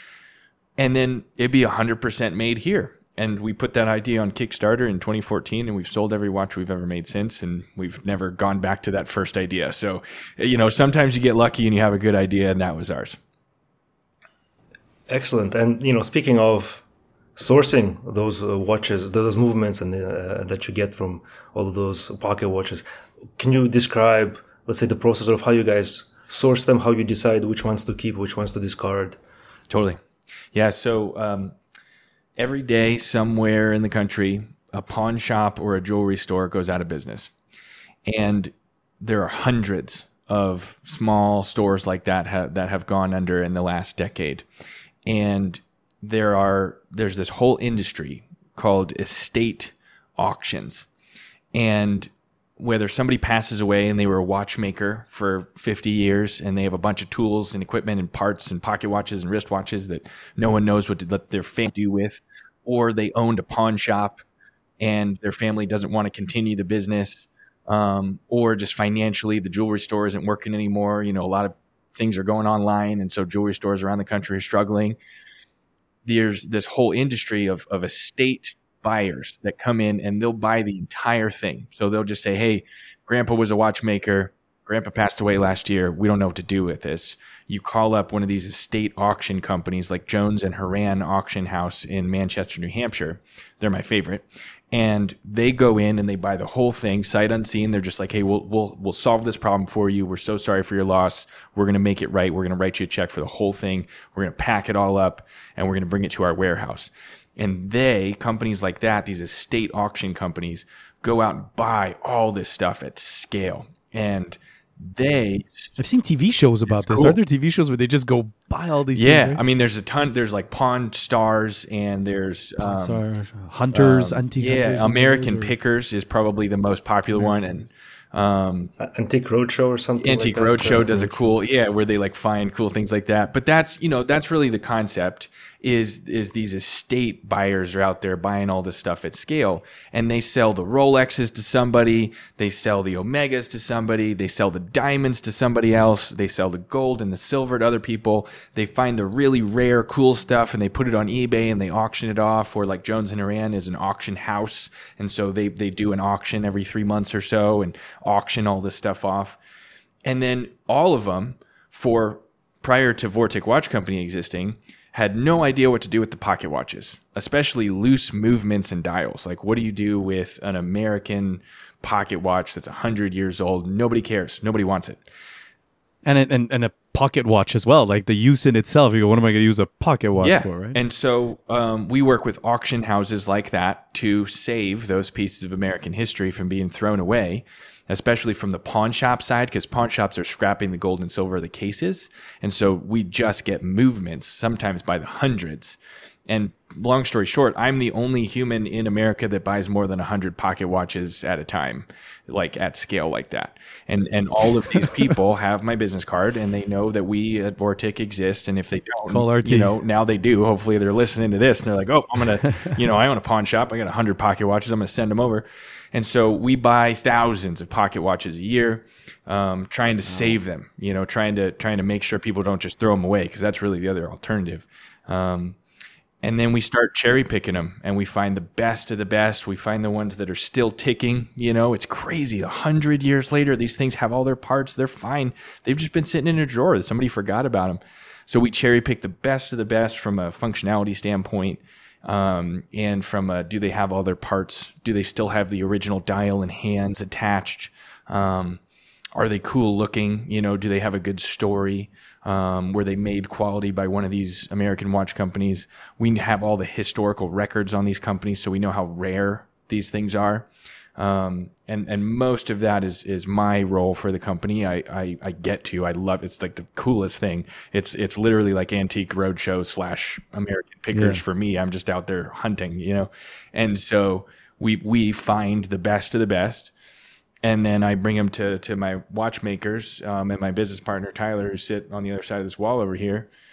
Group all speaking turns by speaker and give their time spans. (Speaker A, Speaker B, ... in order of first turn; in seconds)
Speaker A: 0.8-13.2, 29.7-30.0, 30.5-31.6, 32.4-37.3, 38.1-44.5, 45.1-50.9, 51.5-64.2, 64.8-75.0, 76.1-115.7, 116.7-117.2, 119.0-123.0, 123.7-128.7, 130.0-159.4, 160.1-175.0, 180.2-225.6, 226.2-248.6, 249.2-276.7, 277.4-283.3
Speaker B: 15.1-16.8, 17.4-22.9, 23.4-29.2, 128.8-131.2
Speaker C: 115.8-119.4, 122.6-125.5, 176.0-180.8, 209.1-209.7, 270.9-271.2